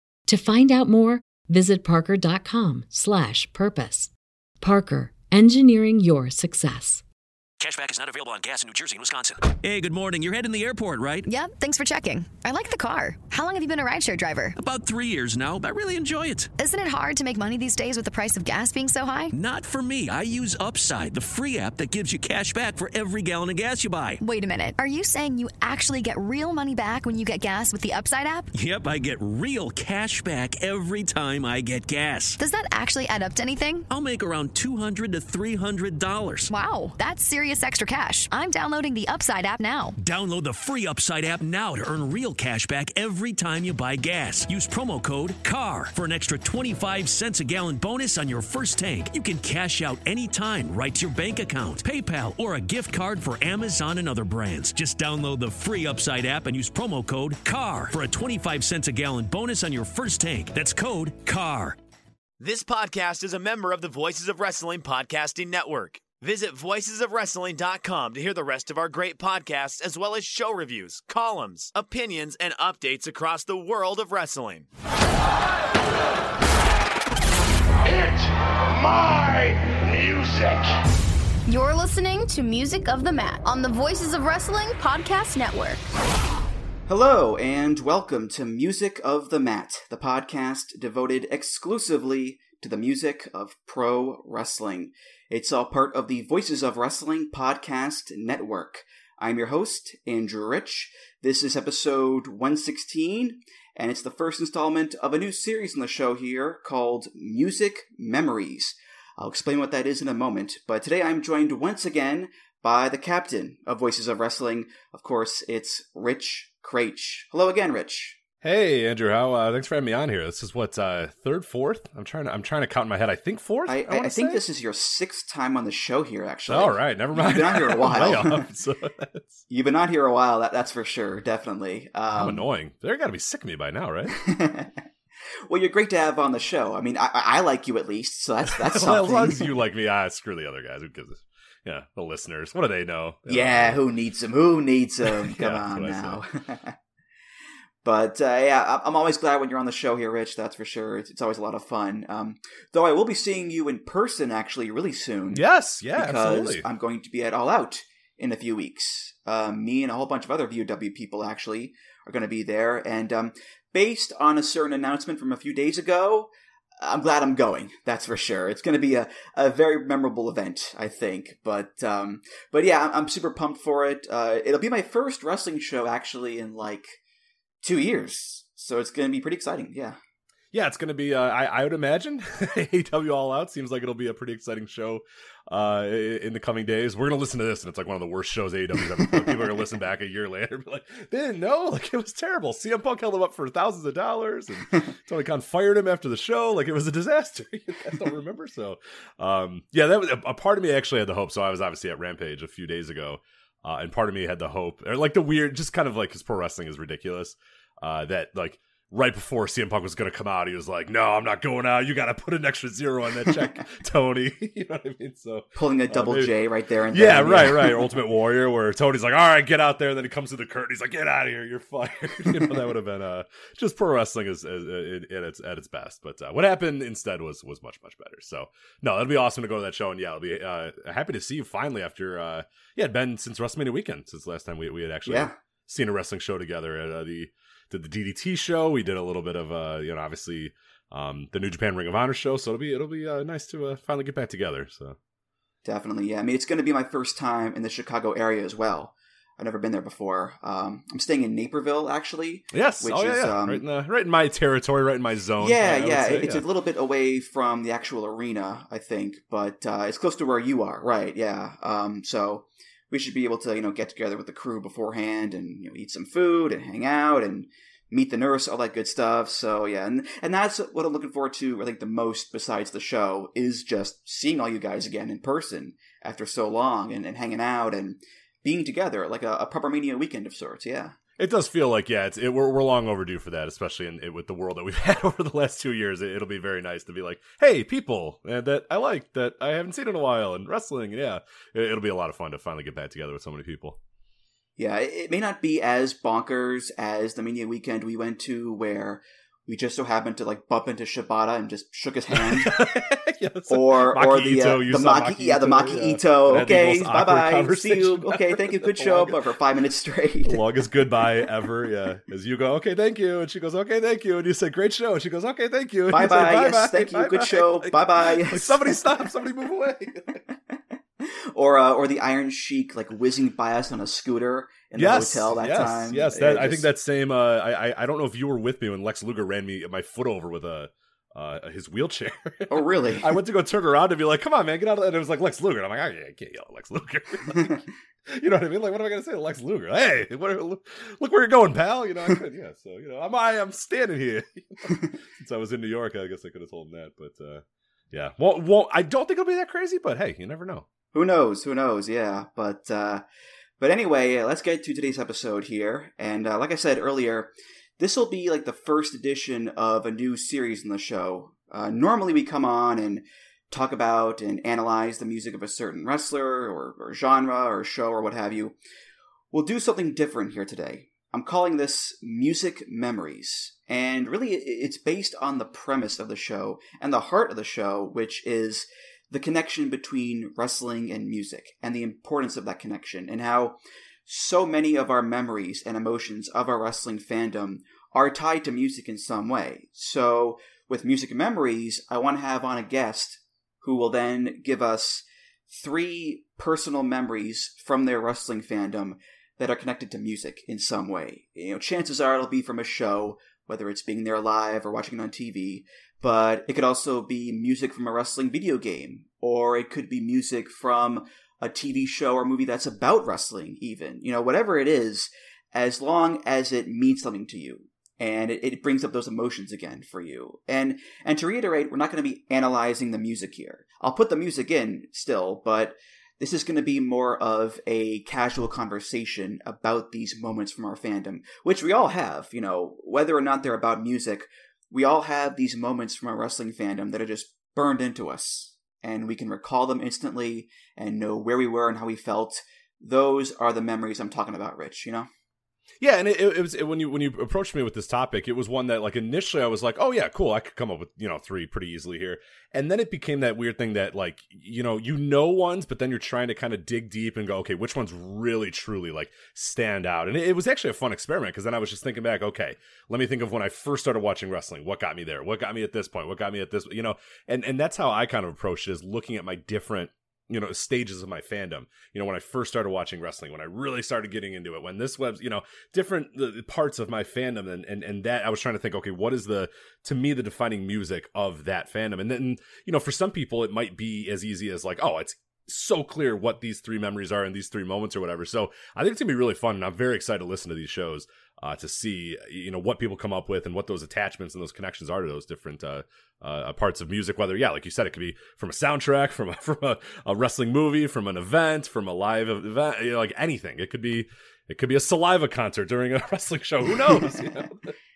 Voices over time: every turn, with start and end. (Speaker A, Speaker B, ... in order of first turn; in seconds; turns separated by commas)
Speaker A: 0.3-7.0, Speaker B: 7.6-11.3, Speaker C: 11.2-14.6, Speaker B: 14.6-16.5, Speaker C: 16.6-19.3, Speaker B: 19.3-24.2, Speaker C: 24.2-28.5, Speaker B: 28.5-32.4, Speaker C: 32.4-33.9, Speaker B: 33.9-36.5, Speaker C: 36.5-40.0, Speaker B: 40.0-61.8, Speaker D: 62.4-74.7, Speaker E: 77.8-80.7, Speaker F: 81.5-85.8, Speaker G: 86.9-118.2, Speaker H: 118.4-124.4, Speaker G: 123.7-128.5, Speaker H: 126.5-129.4, Speaker G: 129.5-132.4, Speaker H: 132.1-134.2, Speaker G: 134.1-134.7, Speaker G: 135.5-139.5, Speaker H: 138.6-143.8, Speaker G: 143.3-146.8, Speaker H: 145.1-146.2, Speaker G: 147.8-155.4, Speaker H: 155.3-156.7, Speaker G: 155.9-177.0, Speaker G: 177.6-180.0, Speaker H: 180.5-216.3, Speaker G: 215.6-217.9, Speaker H: 216.9-245.0, Speaker G: 235.1-235.3, Speaker G: 245.7-253.6, Speaker H: 252.5-256.4, Speaker G: 255.4-281.0, Speaker H: 281.2-293.8, Speaker G: 294.6-302.6, Speaker H: 302.1-309.2, Speaker G: 303.5-310.4, Speaker H: 310.2-320.2, Speaker G: 315.9-318.9, Speaker G: 321.0-326.7, Speaker H: 324.8-350.7, Speaker G: 332.5-333.2, Speaker G: 350.9-353.0, Speaker G: 353.6-368.6, Speaker G: 369.3-445.1, Speaker H: 445.8-507.8